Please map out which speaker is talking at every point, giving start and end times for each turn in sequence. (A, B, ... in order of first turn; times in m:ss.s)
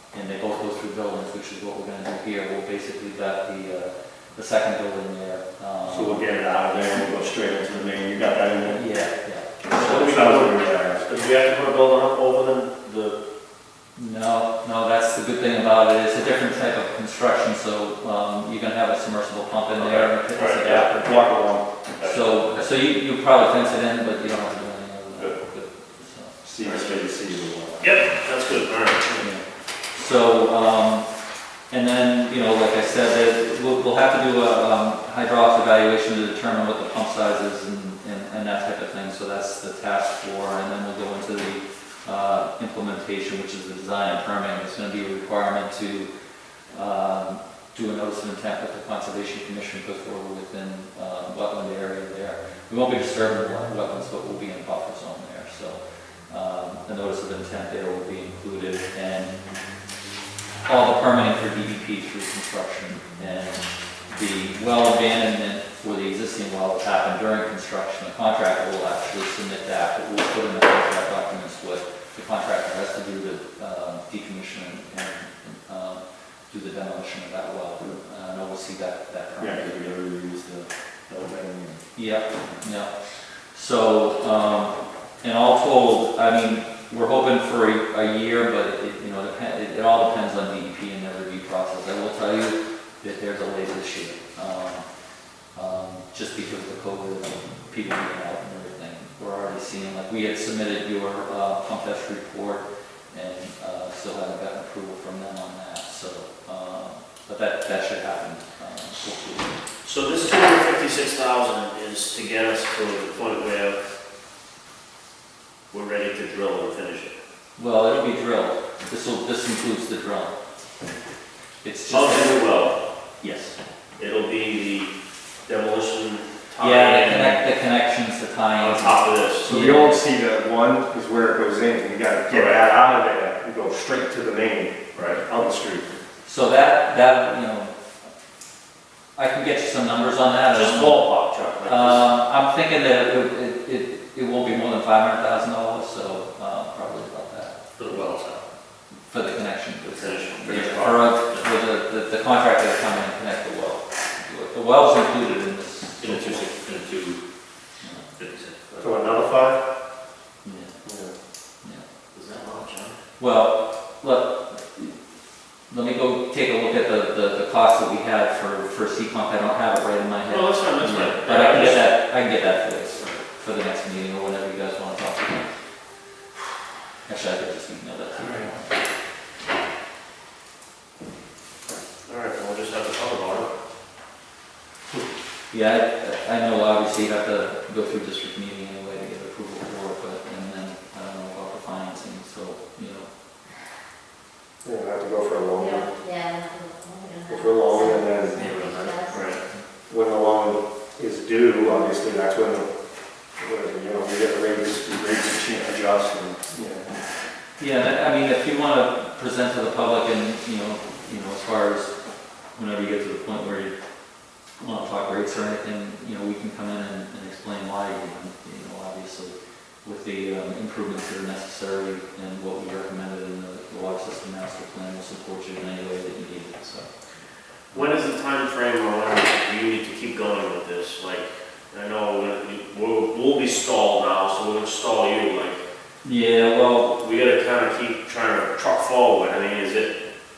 0:00.1-0:06.2 A
0:05.9-0:08.8 B
0:08.7-0:09.7 A
0:09.6-0:11.0 B
0:09.7-0:13.2 C
0:14.0-0:21.3 A
0:19.8-0:20.9 C
0:20.9-0:21.7 B
0:22.0-0:22.6 C
0:22.0-0:26.3 A
0:26.4-0:28.0 B
0:26.6-0:27.0 C
0:27.8-0:29.3 C
0:29.2-0:31.1 A
0:31.7-0:46.1 A
0:46.7-0:59.4 A
1:00.7-1:19.8 A
1:19.4-1:21.8 B
1:22.0-1:22.9 A
1:23.5-1:34.8 A
1:35.6-1:49.5 A
1:49.8-1:53.8 C
1:55.7-1:57.2 C
1:57.6-2:00.3 A
2:01.6-2:02.7 A
2:01.9-2:02.8 C
2:03.2-2:03.6 A
2:04.0-2:04.9 C
2:05.5-2:07.4 C
2:06.6-2:10.0 A
2:08.6-2:09.5 C
2:09.4-2:16.0 B
2:12.3-2:12.7 C
2:14.9-2:15.2 C
2:16.2-2:17.7 A
2:19.2-2:21.0 A
2:20.5-2:22.1 C
2:21.6-2:27.6 A
2:27.8-2:28.4 C
2:29.1-2:36.4 A
2:29.9-2:31.5 C
2:36.0-2:37.2 C
2:37.8-2:38.1 A
2:38.2-2:39.2 C
2:38.8-2:39.6 B
2:40.4-2:40.8 A
2:40.8-2:41.1 B
2:42.1-2:43.0 C
2:43.2-2:45.0 A
2:45.7-2:55.5 A
2:50.3-2:51.9 C
2:57.1-2:58.7 A
2:58.2-2:58.5 C
3:02.1-3:03.5 C
3:05.5-3:13.1 A
3:14.6-3:15.9 B
3:15.6-3:19.3 D
3:17.3-3:19.0 B
3:18.4-3:19.6 A
3:19.1-3:19.4 C
3:19.9-3:22.7 B
3:23.4-3:26.9 B
3:27.6-3:31.9 A
3:32.6-3:33.8 A
3:34.6-3:46.9 A
3:47.7-3:55.6 C
3:56.0-3:57.0 A
3:57.0-4:00.0 C